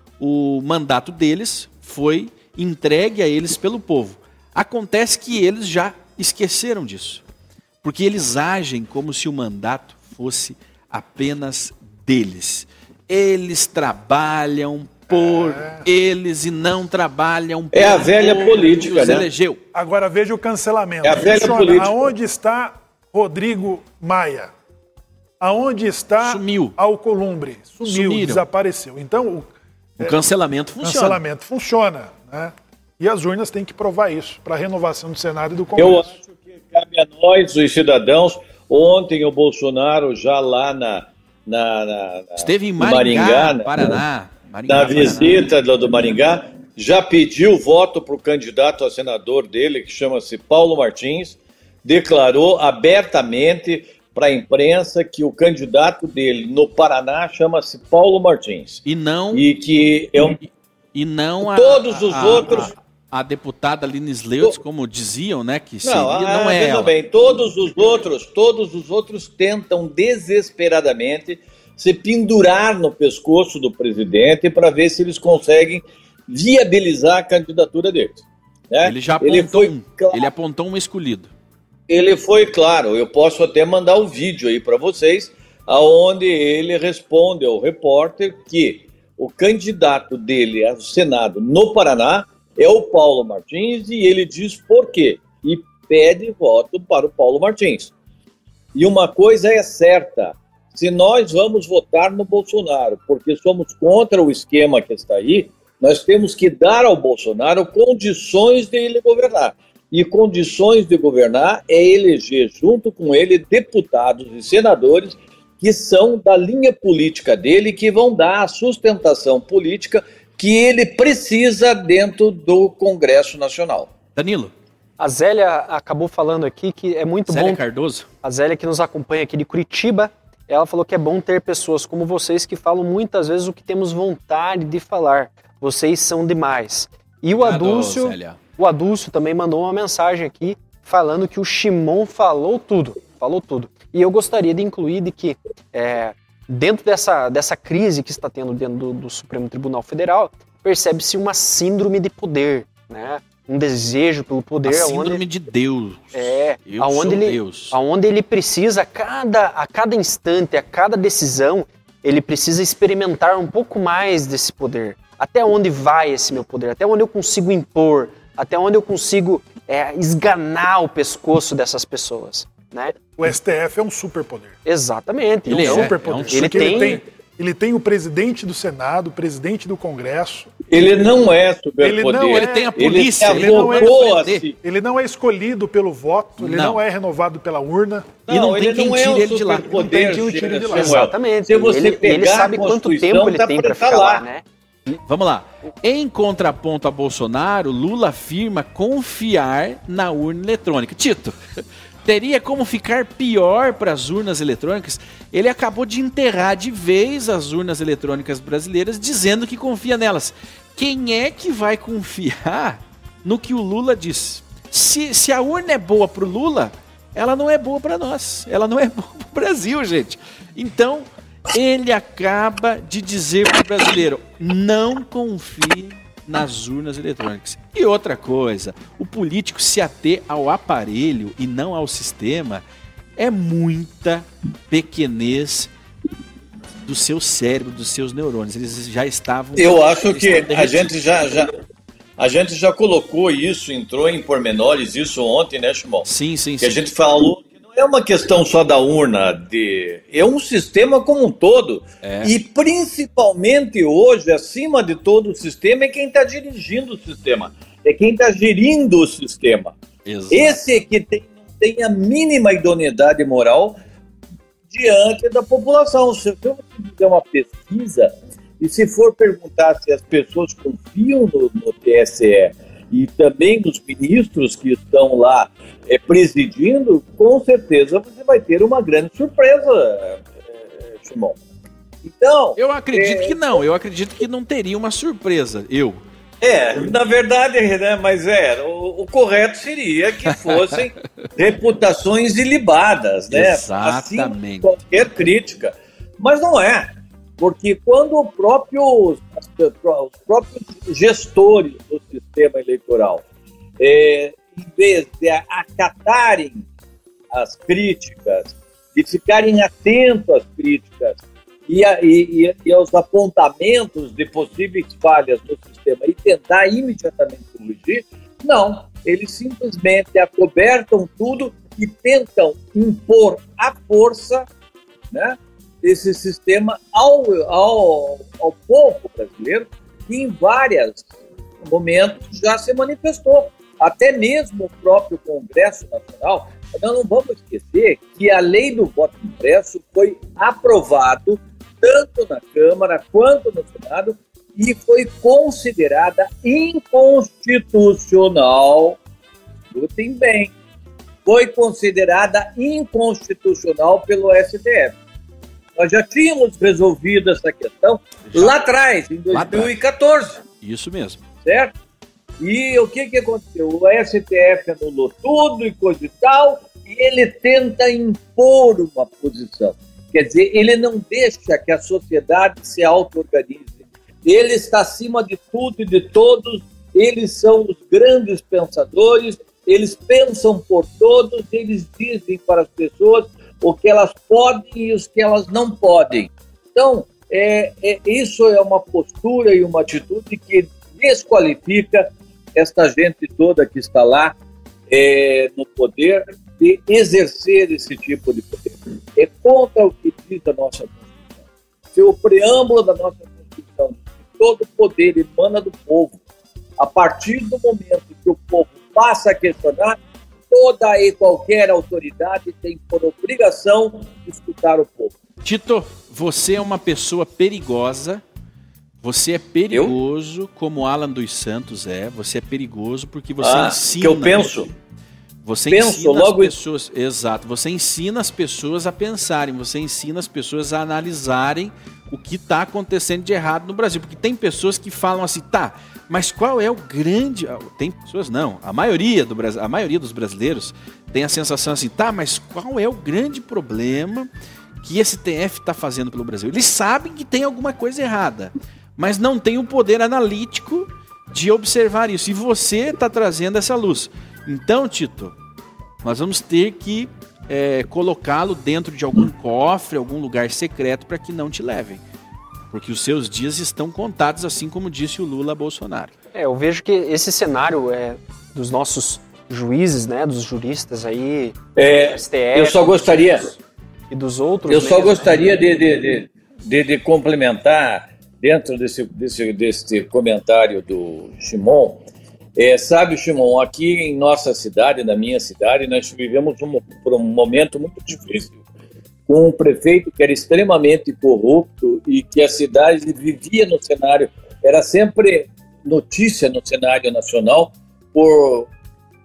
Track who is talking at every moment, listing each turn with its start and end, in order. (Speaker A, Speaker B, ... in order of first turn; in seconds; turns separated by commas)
Speaker A: 0.2-7.2, Speaker A: 7.8-19.6, Speaker B: 15.1-15.8, Speaker C: 17.7-19.2, Speaker B: 19.7-24.5, Speaker C: 21.0-21.9, Speaker B: 25.4-30.2, Speaker A: 26.2-26.7, Speaker A: 27.8-28.4, Speaker A: 30.0-31.2, Speaker B: 30.8-36.2, Speaker C: 35.8-44.0, Speaker A: 42.4-45.4, Speaker C: 44.7-60.4, Speaker A: 58.9-59.4, Speaker A: 60.9-66.9, Speaker C: 61.4-62.7, Speaker C: 65.8-80.3, Speaker A: 78.8-81.3, Speaker C: 81.9-97.9, Speaker C: 98.7-123.9, Speaker A: 124.2-124.5, Speaker D: 125.0-127.6, Speaker A: 127.3-128.1, Speaker D: 128.2-155.2, Speaker A: 137.3-138.4, Speaker A: 154.6-157.8, Speaker D: 156.1-172.9, Speaker B: 173.2-174.6, Speaker D: 174.6-177.0, Speaker A: 175.5-177.0, Speaker B: 175.5-180.5, Speaker C: 180.7-184.6, Speaker B: 181.8-184.0, Speaker A: 182.3-184.5, Speaker B: 184.6-188.1, Speaker A: 186.4-186.8, Speaker A: 188.3-189.8, Speaker C: 188.3-194.2, Speaker B: 189.7-191.1, Speaker D: 190.7-194.9, Speaker A: 195.1-201.4, Speaker A: 202.1-232.6, Speaker A: 233.2-235.7, Speaker A: 236.8-240.9, Speaker C: 239.6-241.5, Speaker C: 242.2-246.1, Speaker A: 246.0-246.9, Speaker C: 246.6-259.7, Speaker A: 252.0-252.3, Speaker A: 260.1-260.6, Speaker C: 260.3-263.8, Speaker C: 264.7-281.4, Speaker C: 282.1-283.6, Speaker A: 282.6-286.0, Speaker C: 286.4-303.2, Speaker A: 293.3-294.7, Speaker C: 303.8-306.6, Speaker C: 307.3-324.5, Speaker C: 325.1-331.1, Speaker C: 331.6-349.0, Speaker C: 349.7-350.5, Speaker C: 351.2-354.9, Speaker C: 355.8-360.4, Speaker A: 359.3-359.7, Speaker A: 360.6-361.2, Speaker C: 361.4-361.7, Speaker C: 362.4-373.7, Speaker C: 374.2-394.4, Speaker C: 394.9-401.0, Speaker C: 401.9-406.2, Speaker C: 406.8-415.1, Speaker A: 415.4-418.2, Speaker A: 419.0-424.5, Speaker C: 423.4-424.7, Speaker A: 425.4-444.3, Speaker C: 425.7-426.5, Speaker A: 444.8-455.4, Speaker A: 456.0-462.0, Speaker A: 462.7-466.1, Speaker D: 466.3-473.6, Speaker C: 471.8-473.5, Speaker D: 474.1-475.4, Speaker C: 474.7-488.6, Speaker C: 489.3-498.7